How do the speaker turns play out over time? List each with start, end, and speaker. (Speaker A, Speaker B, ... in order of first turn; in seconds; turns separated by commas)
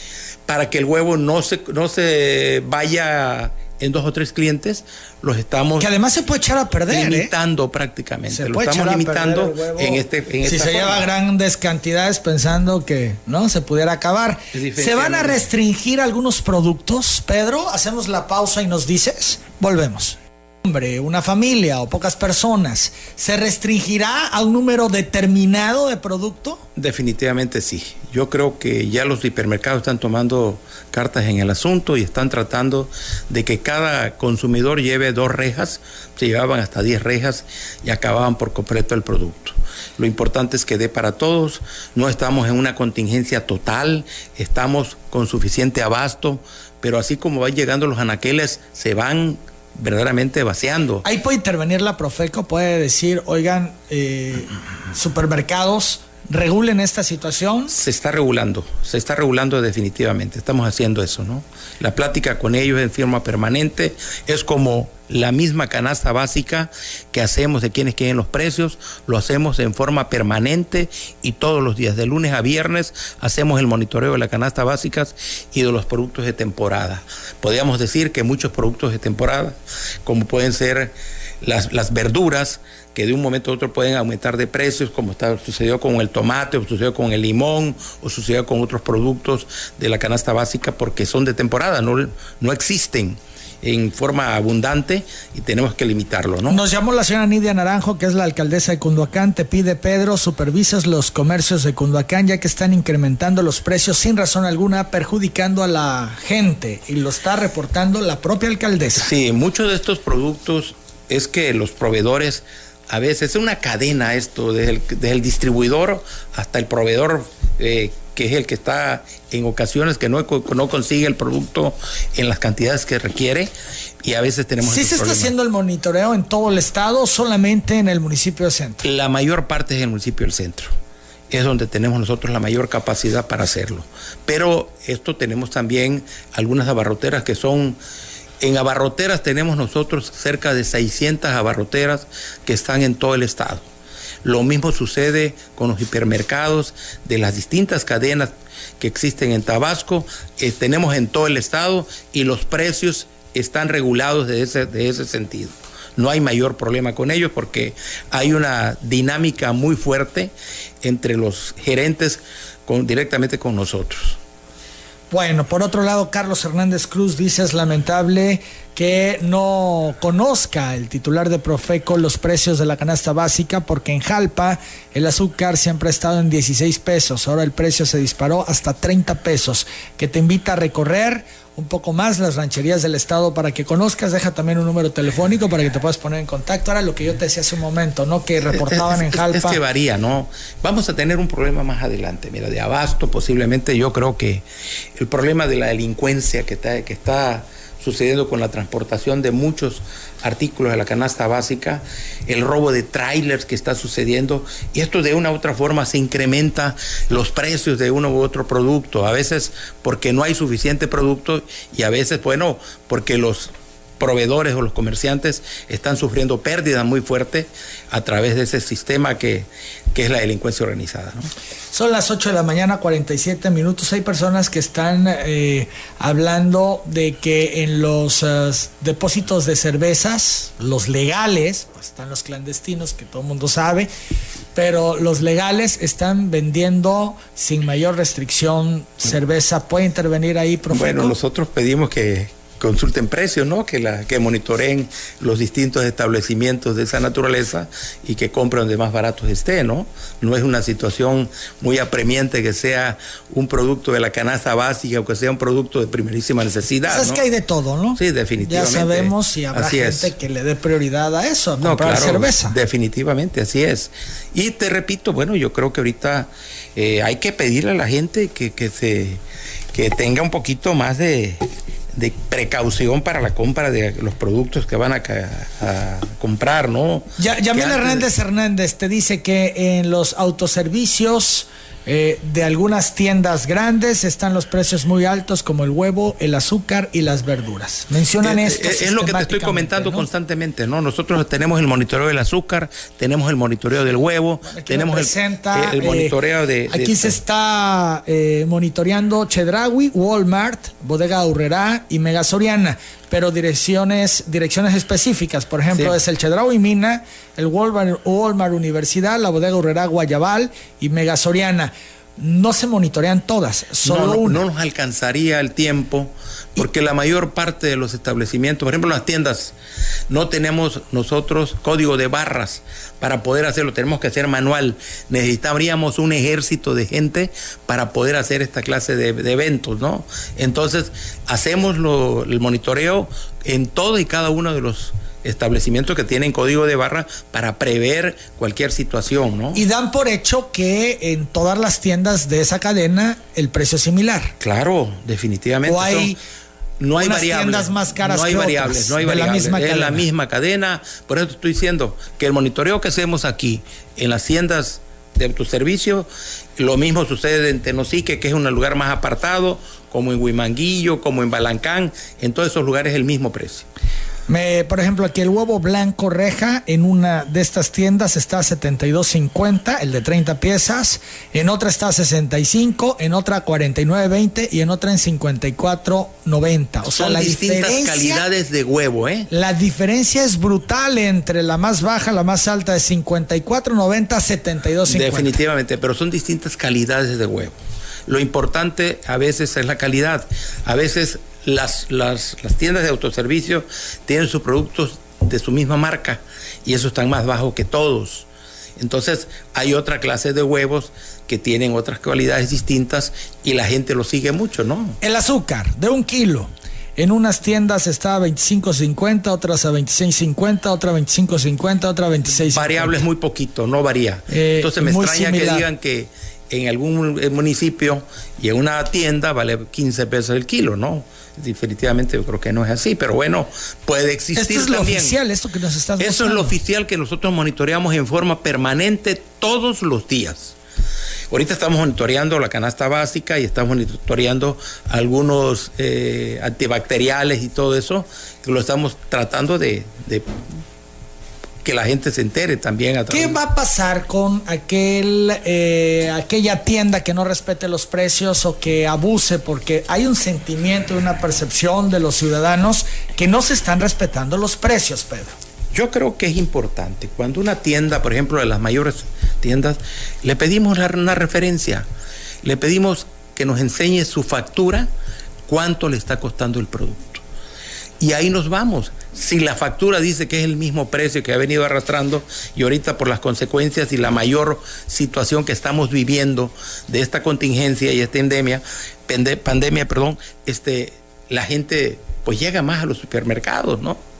Speaker A: 0.5-5.9, Speaker B: 5.8-7.3, Speaker A: 6.9-11.1, Speaker B: 8.3-26.6, Speaker A: 14.5-15.5, Speaker A: 26.8-51.0, Speaker B: 51.0-57.7, Speaker A: 57.7-96.6, Speaker B: 96.5-109.1, Speaker A: 109.0-123.5, Speaker A: 124.0-125.3, Speaker B: 124.6-128.8, Speaker A: 128.8-130.7, Speaker A: 131.3-137.8, Speaker A: 138.4-143.7, Speaker A: 144.2-164.2, Speaker B: 165.1-189.6, Speaker A: 188.5-221.3, Speaker B: 221.7-233.9, Speaker B: 234.5-241.1, Speaker A: 240.7-257.2, Speaker B: 256.9-262.5, Speaker A: 258.0-260.1, Speaker A: 261.6-269.2, Speaker A: 269.7-278.1, Speaker B: 277.2-290.1, Speaker A: 288.2-297.2, Speaker B: 294.4-296.1, Speaker B: 296.7-314.4, Speaker A: 305.7-306.0, Speaker A: 313.8-319.5, Speaker A: 320.1-339.6, Speaker B: 339.5-344.3, Speaker A: 344.4-346.1, Speaker B: 345.6-346.2, Speaker A: 346.8-363.6, Speaker B: 347.0-350.1, Speaker B: 364.3-378.2, Speaker A: 376.9-379.3, Speaker B: 379.3-385.4, Speaker A: 384.9-405.0, Speaker B: 405.0-413.0, Speaker A: 412.5-425.1, Speaker B: 414.3-415.7, Speaker B: 424.3-426.6, Speaker A: 426.0-430.5, Speaker A: 431.3-440.3, Speaker A: 441.6-443.4, Speaker B: 443.1-455.4, Speaker A: 455.7-461.8, Speaker A: 462.4-464.9, Speaker A: 465.5-467.2, Speaker A: 468.0-484.0